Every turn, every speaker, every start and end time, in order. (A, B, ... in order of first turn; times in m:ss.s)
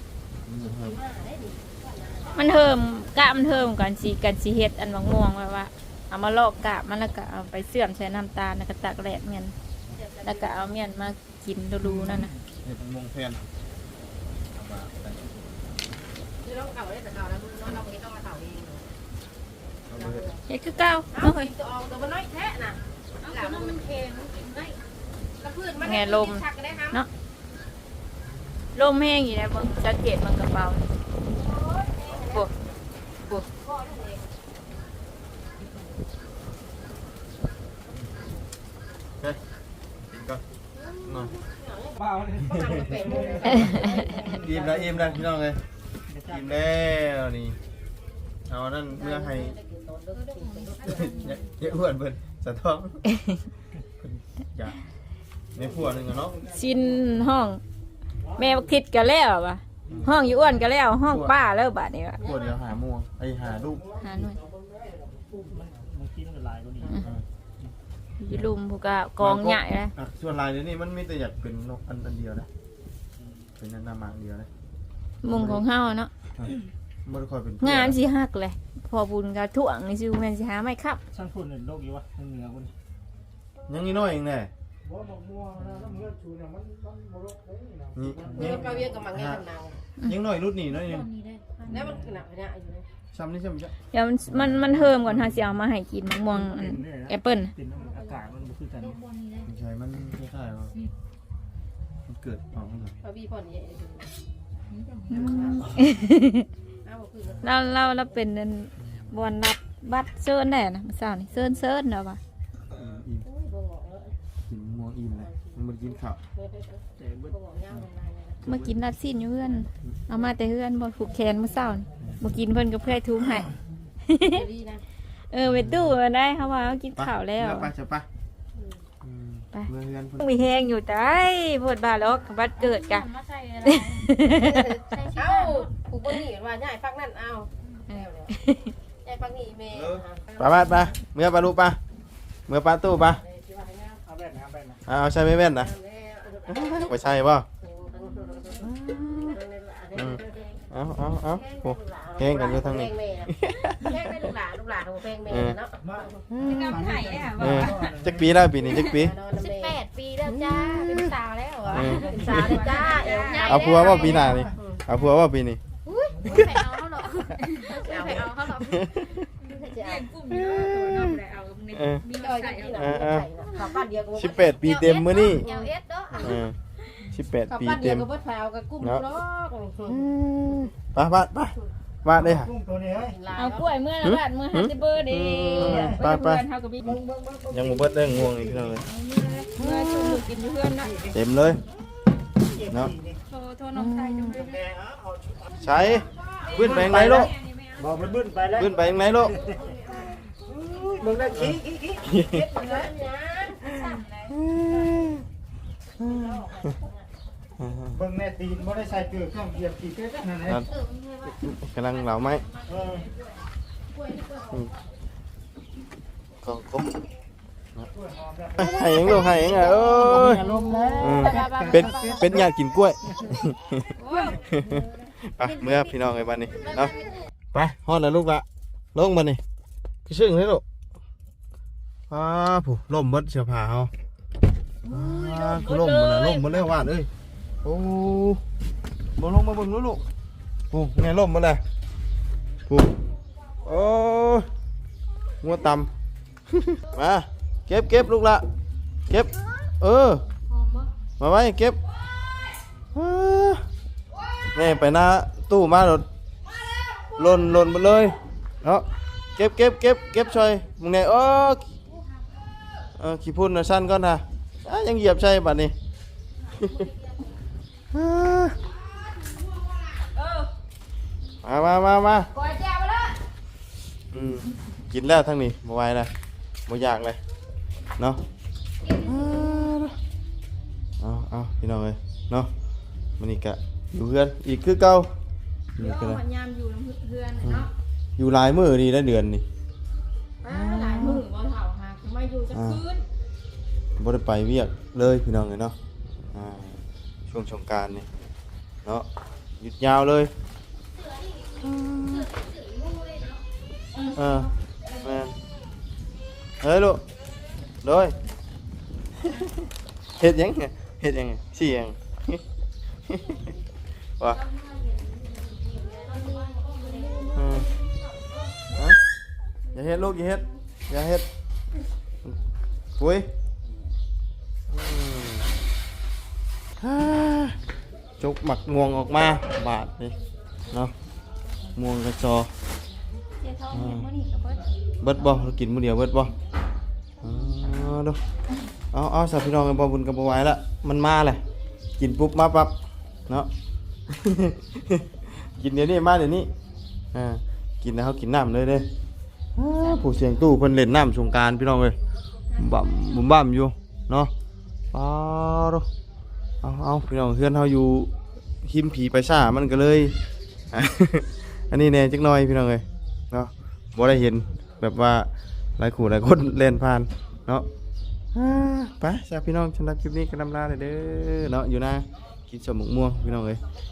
0:00.4-0:01.0 A
0:00.6-0:02.6 B
0:02.3-0:09.5 C
0:09.9-0:10.6 B
0:10.2-0:12.3 C
0:11.8-0:12.4 D
0:12.6-0:13.5 A
0:14.5-0:15.4 A
0:16.4-0:18.9 B
0:19.9-0:20.3 A
0:19.9-0:20.4 B
0:20.5-0:21.5 C
0:21.1-0:23.9 B
0:23.2-0:24.8 E
0:25.4-0:27.0 B
0:25.8-0:27.1 C
0:28.7-0:30.8 C
0:31.3-0:32.5 B
0:33.5-0:34.3 B
0:40.1-0:40.4 A
0:40.7-0:44.4 B
0:41.0-0:41.3 A
0:42.0-0:45.2 D
0:43.6-0:45.6 A
0:46.1-0:46.6 D
0:46.2-0:47.6 A
0:48.5-0:49.5 A
0:48.9-0:51.7 B
0:50.1-0:51.6 E
0:50.8-0:53.0 A
0:54.0-0:54.8 A
0:55.5-0:56.4 A
0:56.4-0:57.6 C
0:58.4-1:02.2 C
0:59.9-1:00.2 A
1:01.1-1:01.3 A
1:02.2-1:02.6 B
1:02.2-1:03.9 A
1:04.0-1:04.4 C
1:05.4-1:07.1 D
1:08.2-1:09.9 C
1:09.2-1:12.5 A
1:13.6-1:14.5 A
1:15.2-1:16.1 C
1:15.2-1:15.6 A
1:16.4-1:18.0 A
1:17.6-1:21.0 C
1:21.1-1:22.7 D
1:23.7-1:24.5 A
1:24.9-1:26.6 D
1:27.9-1:29.4 A
1:28.2-1:28.8 D
1:28.3-1:29.8 B
1:30.0-1:31.1 A
1:30.7-1:31.7 E
1:31.6-1:32.8 B
1:31.7-1:32.1 D
1:33.1-1:33.7 A
1:33.9-1:37.5 C
1:34.3-1:35.4 A
1:36.3-1:39.0 D
1:37.8-1:38.2 E
1:38.8-1:39.5 E
1:39.4-1:40.7 A
1:42.0-1:43.0 A
1:43.0-1:44.1 B
1:44.7-1:45.8 E
1:45.1-1:46.5 C
1:45.1-1:45.8 B
1:46.8-1:48.2 B
1:47.4-1:52.2 C
1:51.4-1:51.6 B
1:52.7-1:53.2 A
1:53.2-1:54.2 B
1:54.5-1:56.2 A
1:55.2-1:55.6 B
1:56.3-1:58.5 B
1:57.0-1:57.3 D
1:58.4-2:03.5 C
1:58.4-1:58.8 A
2:04.1-2:04.4 C
2:04.3-2:04.8 B
2:05.3-2:07.7 C
2:05.4-2:06.0 A
2:07.0-2:08.1 A
2:08.5-2:08.8 B
2:09.0-2:10.2 A
2:10.2-2:13.0 C
2:12.6-2:15.7 E
2:13.6-2:14.7 C
2:14.2-2:18.4 B
2:17.9-2:18.7 C
2:19.0-2:20.9 B
2:19.7-2:21.8 A
2:22.5-2:23.2 A
2:23.2-2:24.0 B
2:24.0-2:24.8 D
2:24.8-2:25.7 A
2:25.4-2:30.6 B
2:26.5-2:27.5 A
2:28.6-2:29.4 A
2:29.9-2:34.0 A
2:31.2-2:36.3 B
2:35.3-2:35.6 A
2:36.3-2:36.8 A
2:36.4-2:37.9 E
2:36.6-2:38.3 D
2:37.4-2:39.1 A
2:38.5-2:39.8 B
2:38.7-2:44.4 E
2:40.3-2:41.1 A
2:41.7-2:44.8 B
2:41.7-2:42.1 A
2:41.8-2:43.3 D
2:43.4-2:45.6 A
2:43.9-2:44.4 D
2:45.8-2:53.8 E
2:47.6-2:48.6 B
2:48.6-2:49.0 A
2:49.4-2:50.1 B
2:50.4-2:51.2 A
2:51.7-2:52.0 A
2:52.1-2:56.3 B
2:52.7-2:53.2 A
2:54.2-2:55.4 A
2:54.6-2:56.4 E
2:56.1-2:56.6 A
2:57.1-2:58.0 A
2:57.5-3:00.1 B
2:59.9-3:02.5 A
3:02.2-3:03.2 D
3:03.0-3:03.7 B
3:03.3-3:06.9 C
3:04.0-3:08.9 A
3:05.6-3:06.0 D
3:09.0-3:11.0 C
3:09.6-3:10.2 A
3:10.8-3:11.1 D
3:11.1-3:11.6 A
3:12.4-3:13.2 D
3:12.7-3:12.9 A
3:13.3-3:14.5 C
3:14.3-3:15.5 D
3:15.5-3:17.2 B
3:15.6-3:17.3 A
3:16.5-3:19.6 D
3:17.2-3:17.9 E
3:18.5-3:19.3 A
3:18.8-3:23.8 B
3:20.4-3:22.6 D
3:21.3-3:22.5 A
3:23.7-3:25.2 A
3:26.0-3:26.7 A
3:26.0-3:27.1 B
3:27.6-3:28.0 A
3:27.9-3:30.6 D
3:30.4-3:30.7 A
3:30.7-3:31.4 B
3:31.3-3:32.5 A
3:32.5-3:33.4 E
3:32.7-3:33.1 D
3:33.9-3:34.7 B
3:36.4-3:37.1 A
3:38.0-3:38.7 D
3:38.6-3:46.9 A
3:38.9-3:42.4 C
3:39.5-3:39.8 B
3:39.9-3:42.4 D
3:44.0-3:44.4 E
3:46.6-3:46.9 E
3:47.5-3:49.4 A
3:50.0-3:50.6 A
3:52.1-3:53.9 A
3:54.8-3:57.1 A
3:54.9-3:56.6 C
3:57.6-3:58.4 A
3:59.2-4:00.0 A
4:00.7-4:01.6 A
4:02.7-4:03.0 A
4:03.6-4:04.5 A
4:05.4-4:05.9 A
4:06.5-4:08.4 A
4:09.1-4:10.2 A
4:10.5-4:10.9 E
4:11.2-4:11.8 A
4:12.9-4:13.6 A
4:14.5-4:16.1 A
4:17.2-4:18.8 A
4:19.4-4:21.7 A
4:23.0-4:25.7 A
4:26.6-4:26.9 A
4:26.8-4:27.1 E
4:27.9-4:28.6 A
4:30.2-4:30.5 C
4:31.4-4:32.3 A
4:32.4-4:33.2 E
4:34.1-4:36.1 A
4:36.7-4:37.2 A
4:38.0-4:38.2 A
4:38.9-4:40.0 A
4:41.0-4:42.5 A
4:43.2-4:45.1 A
4:45.7-4:46.2 A
4:45.8-4:47.7 C
4:47.4-4:49.4 A
4:50.4-4:51.3 B
4:50.4-4:52.9 C
4:52.0-4:52.7 B
4:52.5-4:52.9 A
4:54.0-4:55.8 A
4:56.3-4:58.1 A
4:59.6-5:00.3 A
5:01.0-5:03.4 E
5:01.6-5:02.3 A
5:04.1-5:05.3 A
5:06.6-5:07.0 A
5:07.8-5:08.2 A
5:10.2-5:12.4 A
5:13.1-5:13.5 A
5:14.4-5:17.7 E
5:16.8-5:17.4 B
5:17.3-5:17.7 A
5:18.7-5:19.0 A
5:19.7-5:21.2 A
5:23.0-5:23.3 A
5:24.7-5:25.5 A
5:26.8-5:27.6 A
5:28.2-5:30.2 A
5:31.7-5:32.5 A
5:33.4-5:34.7 C
5:33.7-5:34.1 A
5:35.0-5:36.3 A
5:37.2-5:38.2 A
5:38.9-5:41.4 A
5:42.0-5:42.7 A
5:44.1-5:46.5 A
5:47.1-5:48.9 A
5:49.6-5:52.0 A
5:52.5-5:54.3 A
5:54.9-5:55.9 A
5:56.6-5:58.1 A
5:58.6-6:00.2 A
6:00.7-6:07.7 A
6:08.3-6:13.6 A